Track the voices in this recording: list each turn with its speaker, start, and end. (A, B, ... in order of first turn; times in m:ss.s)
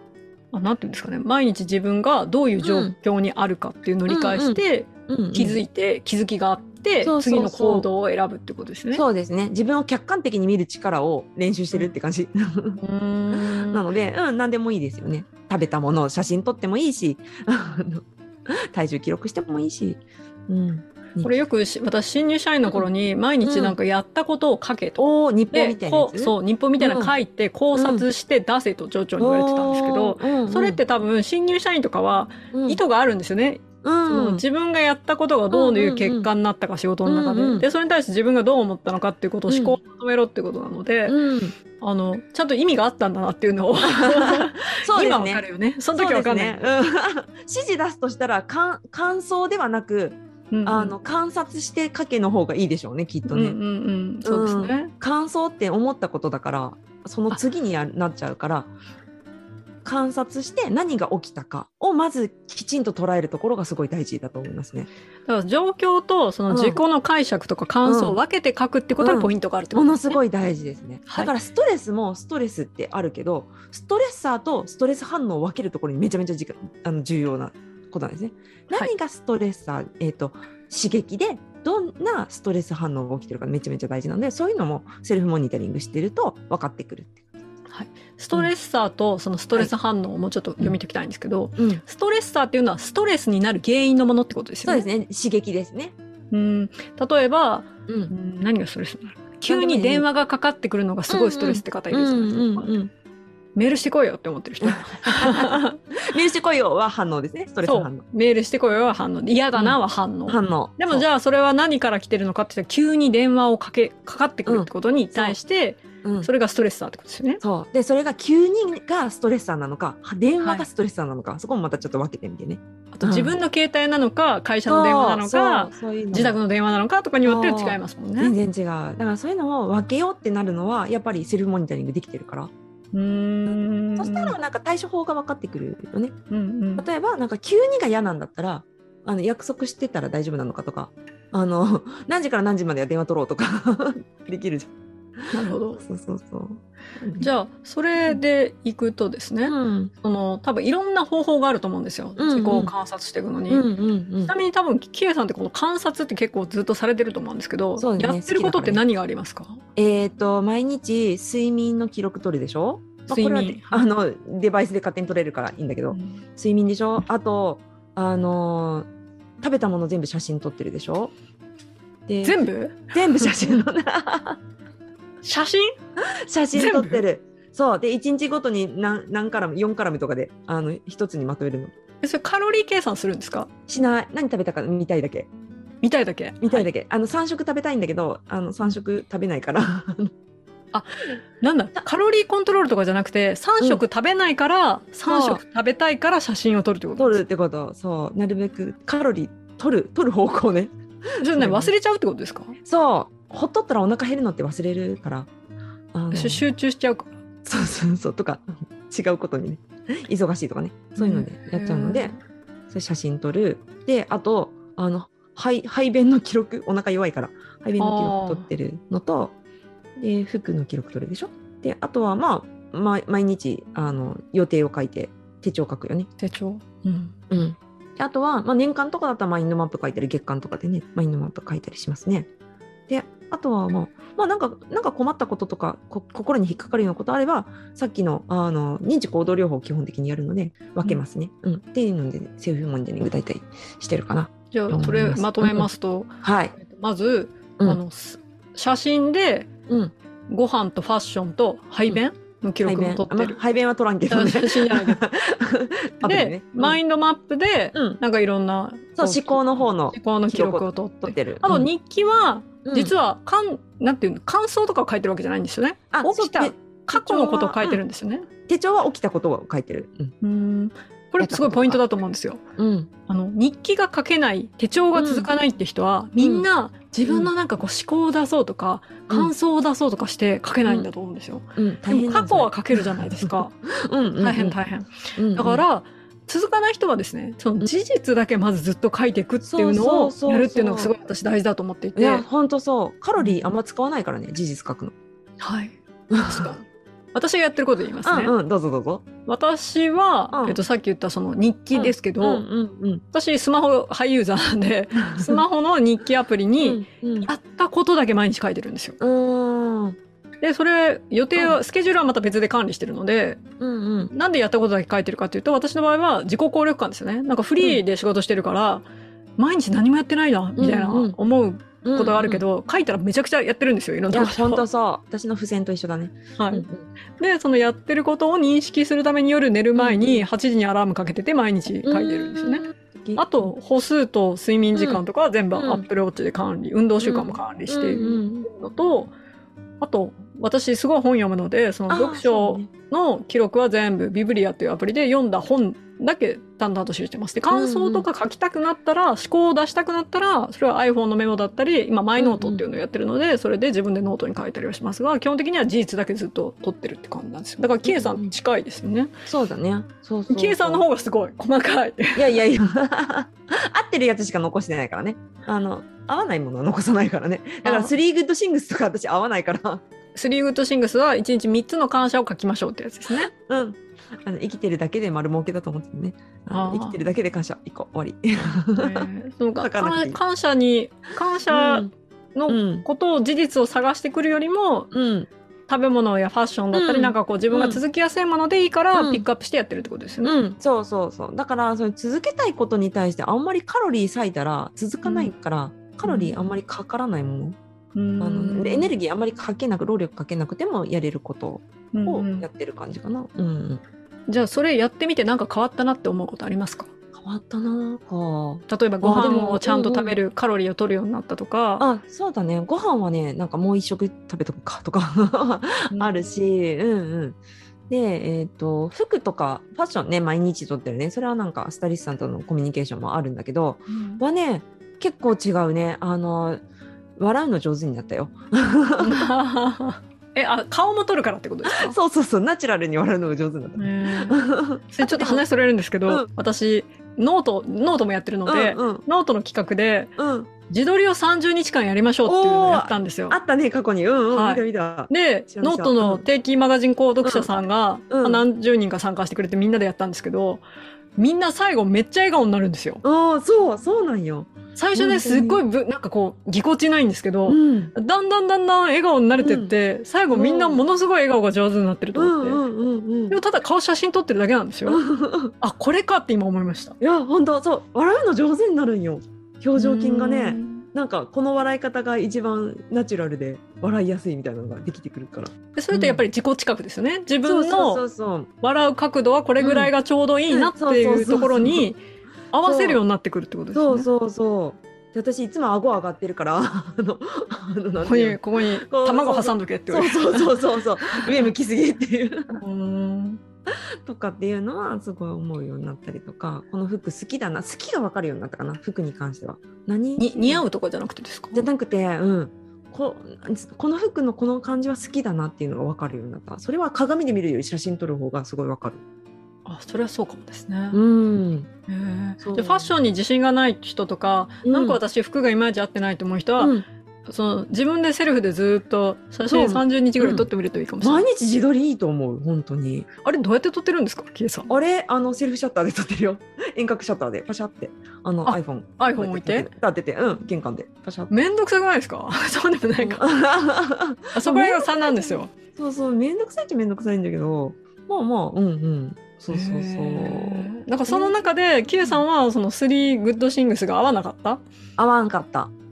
0:00.5-0:09.0 A
0:02.6-0:03.0 B
0:04.1-0:05.6 B
0:07.0-0:07.9 B
0:08.9-0:12.8 B
0:12.8-0:13.8 A
0:13.3-0:21.3 B
0:21.2-0:41.2 A
0:23.4-0:23.8 B
0:25.0-0:27.1 B
0:27.7-0:28.1 B
0:29.2-0:30.8 B
0:32.5-0:32.8 B
0:33.8-0:34.4 B
0:35.5-0:36.3 B
0:37.1-0:37.7 B
0:39.5-0:39.8 B
0:41.1-0:41.6 B
0:41.7-0:46.6 A
0:43.9-0:53.6 B
0:50.5-0:51.0 A
0:53.3-0:54.9 A
0:54.2-0:58.7 B
0:59.8-1:04.9 B
1:05.3-1:10.2 A
1:06.5-1:06.8 B
1:07.8-1:08.2 B
1:09.0-1:27.2 B
1:11.1-1:11.3 A
1:27.7-1:34.9 A
1:31.6-1:31.8 B
1:34.6-1:35.9 B
1:36.3-1:42.7 A
1:37.9-1:38.1 B
1:39.5-1:40.0 B
1:41.1-1:42.9 B
1:43.6-1:45.8 A
1:44.6-1:48.0 B
1:47.6-1:57.4 A
1:49.6-1:51.1 B
1:54.5-1:55.4 B
1:56.0-1:56.3 B
1:57.4-2:03.4 B
2:00.4-2:00.7 A
2:02.9-2:08.3 A
2:04.7-2:06.4 B
2:07.2-2:12.5 B
2:12.9-2:14.4 A
2:13.5-2:16.2 B
2:16.3-2:16.9 A
2:16.8-2:27.3 B
2:25.3-2:25.8 A
2:27.2-2:33.6 A
2:29.5-2:29.9 B
2:32.2-2:32.7 B
2:33.5-2:34.3 B
2:34.3-2:39.6 A
2:37.8-2:38.8 B
2:39.8-2:48.9 B
2:43.1-2:43.9 A
2:45.9-2:46.2 A
2:49.4-2:51.1 B
2:52.1-2:52.4 B
2:52.2-2:53.4 A
2:52.9-2:54.4 B
2:55.2-2:55.7 A
2:56.3-3:01.7 B
2:56.5-2:57.0 A
3:02.0-3:03.5 A
3:03.7-3:05.3 B
3:05.8-3:06.7 A
3:06.4-3:10.1 B
3:10.7-3:17.2 A
3:15.1-3:15.4 B
3:17.0-3:21.7 B
3:21.2-3:22.6 A
3:22.6-3:25.3 B
3:25.9-3:26.4 B
3:26.1-3:27.1 A
3:27.4-3:32.2 B
3:31.0-3:32.2 A
3:32.7-3:39.3 B
3:37.8-3:38.5 A
3:40.0-3:46.1 B
3:46.2-3:47.2 A
3:47.3-3:52.3 B
3:52.9-4:05.7 B
4:04.5-4:09.5 A
4:06.2-4:06.5 B
4:10.3-4:13.4 A
4:12.6-4:16.8 B
4:14.1-4:15.0 A
4:16.0-4:28.3 A
4:17.7-4:18.0 B
4:19.0-4:21.7 B
4:22.6-4:22.9 B
4:25.9-4:27.8 B
4:28.5-4:30.1 B
4:30.2-4:32.4 A
4:31.2-4:31.8 B
4:32.6-4:32.9 B
4:33.1-4:43.6 A
4:35.0-4:35.3 B
4:36.2-4:36.5 B
4:37.0-4:37.3 B
4:41.6-4:44.6 B
4:44.2-4:52.2 A
4:45.2-4:45.6 B
4:49.4-4:50.9 B
4:52.0-4:54.9 B
4:53.2-4:53.5 A
4:55.4-4:58.3 A
4:56.1-4:56.6 B
4:58.0-4:59.0 B
4:59.3-5:02.4 A
5:00.3-5:00.6 B
5:01.7-5:03.0 B
5:03.1-5:09.0 A
5:05.2-5:05.4 B
5:06.6-5:07.3 B
5:09.0-5:10.0 B
5:10.4-5:13.4 A
5:11.3-5:11.6 B
5:13.6-5:14.1 B
5:14.1-5:24.6 A
5:20.6-5:21.2 B
5:21.8-5:22.4 B
5:24.1-5:26.9 B
5:26.4-5:26.7 A
5:27.2-5:39.1 A
5:29.8-5:30.3 B
5:31.8-5:33.5 B
5:34.8-5:35.0 B
5:35.6-5:35.9 B
5:37.0-5:38.5 B
5:39.8-5:59.1 A
5:41.9-5:42.7 B
5:47.5-5:48.1 B
5:52.2-5:52.6 B
5:57.8-5:58.3 B
5:59.3-6:00.8 B
6:00.3-6:02.4 A
6:02.2-6:09.8 B
6:07.6-6:07.9 A
6:10.2-6:13.3 A
6:13.2-6:19.1 B
6:16.5-6:17.0 A
6:18.8-6:24.9 A
6:19.6-6:20.2 B
6:21.5-6:21.9 B
6:22.5-6:22.9 B
6:24.9-6:25.3 B
6:25.7-6:30.4 A
6:26.7-6:27.8 B
6:28.9-6:29.2 B
6:30.2-6:37.6 B
6:35.0-6:35.3 A
6:36.0-6:36.4 A
6:38.0-6:38.9 A
6:38.2-6:43.8 B
6:41.9-6:42.5 A
6:44.3-6:46.9 A
6:47.2-6:50.2 B
6:48.7-6:51.9 A
6:51.8-7:06.6 B
6:55.9-6:56.2 A
7:03.9-7:04.2 A
7:07.2-7:09.1 B
7:09.0-7:12.0 A
7:11.6-7:15.5 B
7:13.8-7:14.4 A
7:14.9-7:20.1 A
7:18.5-7:19.0 B
7:20.2-7:20.5 B
7:20.7-7:23.4 A
7:22.3-7:26.3 B
7:24.3-7:30.6 A
7:27.2-7:27.5 B
7:28.1-7:28.5 B
7:31.2-7:33.0 A
7:33.0-7:35.6 B
7:34.8-7:42.6 A
7:37.5-7:37.9 B
7:39.4-7:39.7 B
7:40.3-7:40.8 B
7:42.1-7:43.4 B
7:43.3-7:45.0 A
7:44.9-7:45.5 B
7:45.6-7:47.0 A
7:47.0-7:56.2 B
7:49.8-7:50.9 A
7:55.8-7:58.0 A
7:57.4-7:58.5 B
7:58.6-8:02.0 A
7:59.6-7:59.9 B
8:00.5-8:01.9 B
8:02.5-8:04.1 A
8:02.6-8:03.0 B
8:03.7-8:12.6 B
8:08.0-8:10.6 A
8:11.1-8:11.5 A
8:12.5-8:13.4 A
8:13.7-8:20.6 B
8:20.2-8:21.7 A
8:21.6-8:29.0 B
8:29.7-8:31.0 A
8:30.9-8:31.7 B
8:31.9-8:41.3 A
8:32.4-8:32.9 B
8:34.6-8:35.0 B
8:36.6-8:36.8 B
8:39.5-8:40.5 B
8:41.0-8:43.1 B
8:43.2-8:44.7 A
8:44.7-8:51.4 B
8:48.4-8:49.7 A
8:51.3-8:53.2 A
8:53.0-9:01.5 B
8:54.4-8:55.5 A
8:59.5-9:04.6 A
9:05.0-9:05.7 B